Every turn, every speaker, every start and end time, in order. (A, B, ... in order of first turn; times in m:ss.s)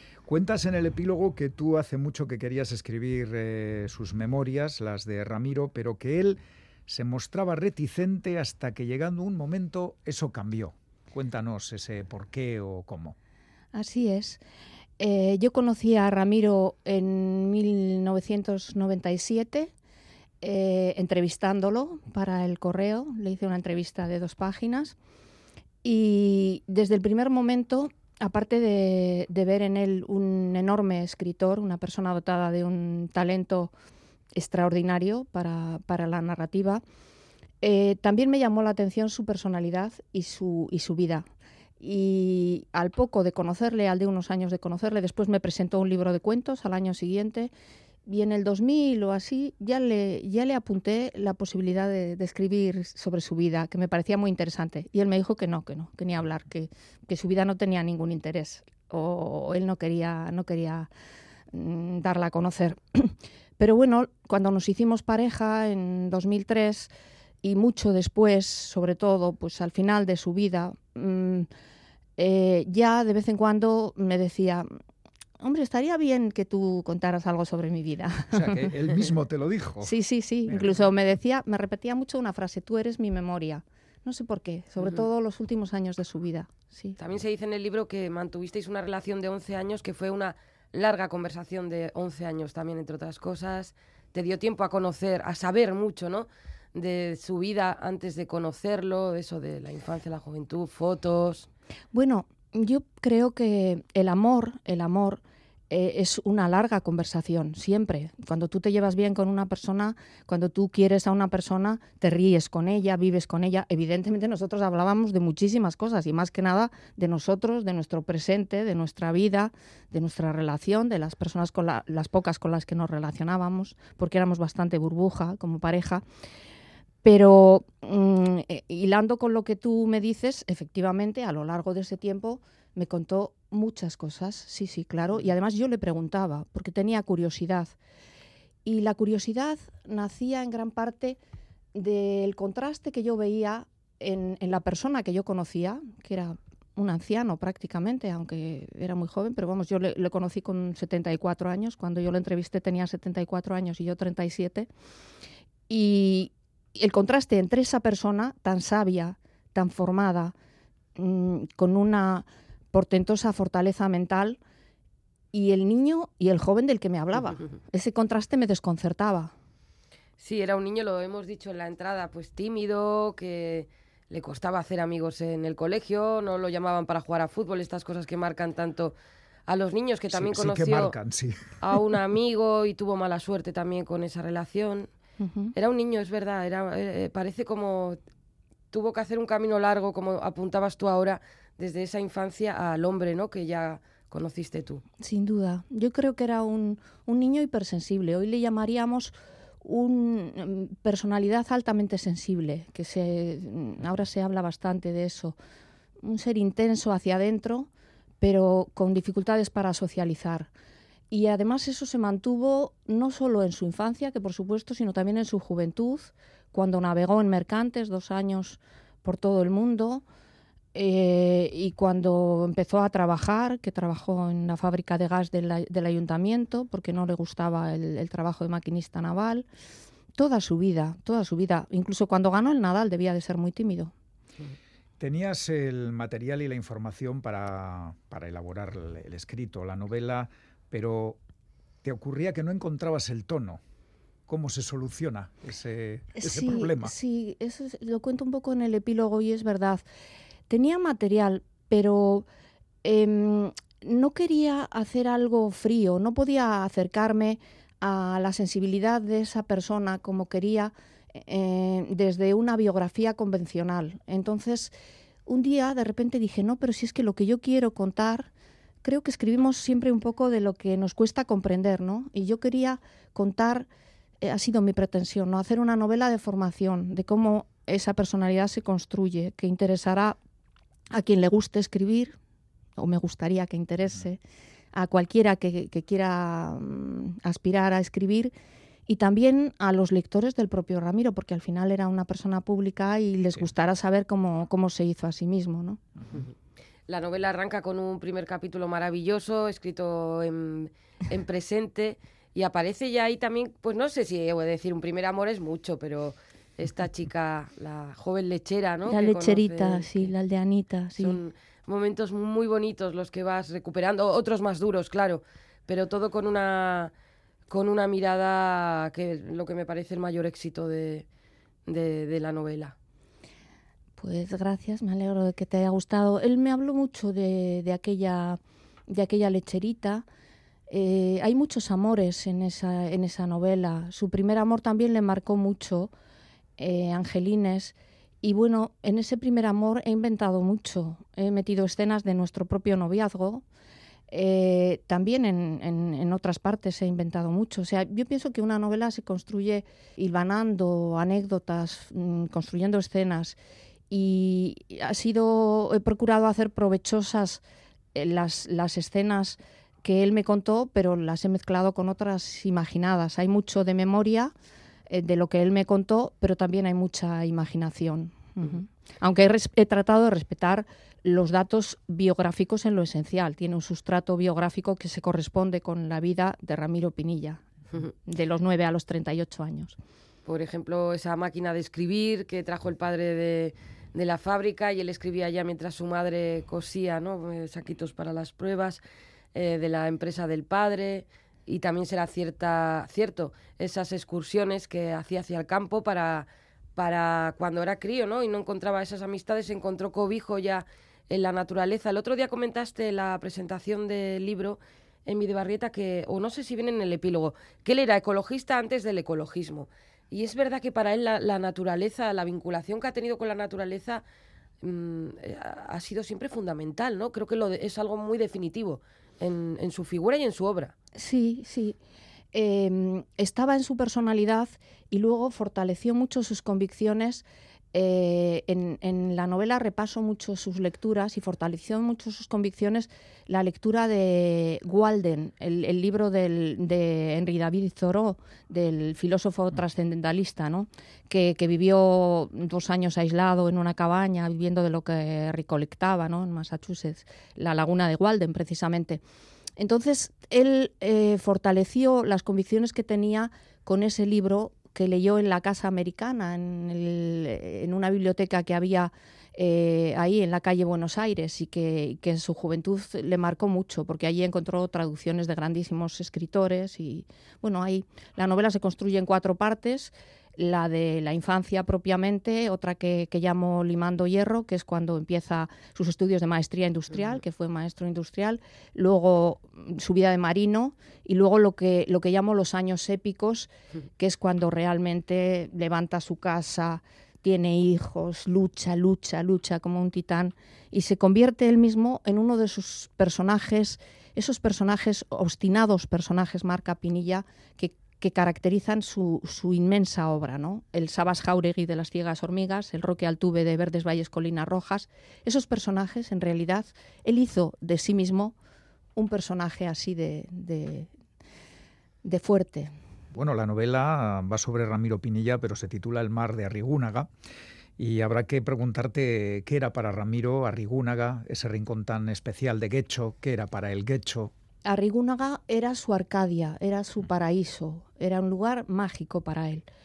0:00.2-0:13.2 A
0:13.7-0:14.4 B
0:15.0-0:19.7 B
0:20.4-0:25.0 B
0:25.8-0:33.7 B
0:34.4-0:36.8 B
0:37.6-0:41.2 B
0:41.8-0:47.5 B
0:48.1-1:00.9 B
1:01.5-1:06.9 B
1:07.4-1:11.5 B
1:12.2-1:14.7 B
1:15.4-1:19.0 B
1:18.3-1:19.9 A
1:19.8-1:27.0 B
1:20.5-1:20.8 A
1:27.0-1:41.5 C
1:41.9-2:06.0 B
2:07.0-2:17.7 B
2:18.6-2:21.2 B
2:21.7-2:34.7 B
2:35.7-2:40.3 B
2:41.0-2:44.4 B
2:45.3-2:49.3 B
2:50.2-2:58.9 C
2:59.5-3:00.9 C
3:00.1-3:01.6 A
3:01.6-3:04.9 C
3:05.2-3:05.5 B
3:05.5-3:08.0 C
3:08.7-3:14.8 C
3:15.0-3:25.4 B
3:26.0-3:27.7 B
3:28.2-3:30.5 B
3:31.1-3:40.0 B
3:40.7-3:49.4 B
3:50.1-3:53.9 B
3:55.0-4:01.2 A
4:01.8-4:03.6 A
4:04.3-4:06.9 A
4:06.2-4:09.8 B
4:10.5-4:12.3 B
4:12.8-4:24.7 B
4:25.3-4:28.3 B
4:28.8-4:33.7 B
4:34.2-4:40.2 B
4:40.9-4:42.2 B
4:42.8-4:44.2 B
4:44.7-4:48.3 B
4:48.9-4:55.8 B
4:56.9-5:10.1 C
5:08.9-5:11.2 B
5:11.0-5:16.9 C
5:17.5-5:21.1 C
5:21.7-5:22.8 C
5:24.0-5:30.0 B
5:30.7-5:35.9 B
5:36.6-5:43.4 B
5:44.1-5:53.4 B
5:53.9-5:57.4 B
5:57.9-6:04.3 B
6:04.9-6:17.4 B
6:18.1-6:19.8 B
6:20.2-6:28.8 C
6:29.4-6:54.0 C
6:54.6-7:00.7 C
7:01.0-7:01.8 B
7:02.3-7:29.0 B
7:29.6-8:28.4 B
8:29.0-8:30.9 B
8:32.0-8:32.7 B
8:33.1-8:37.1 A
8:37.8-8:44.3 A
8:44.6-8:49.6 B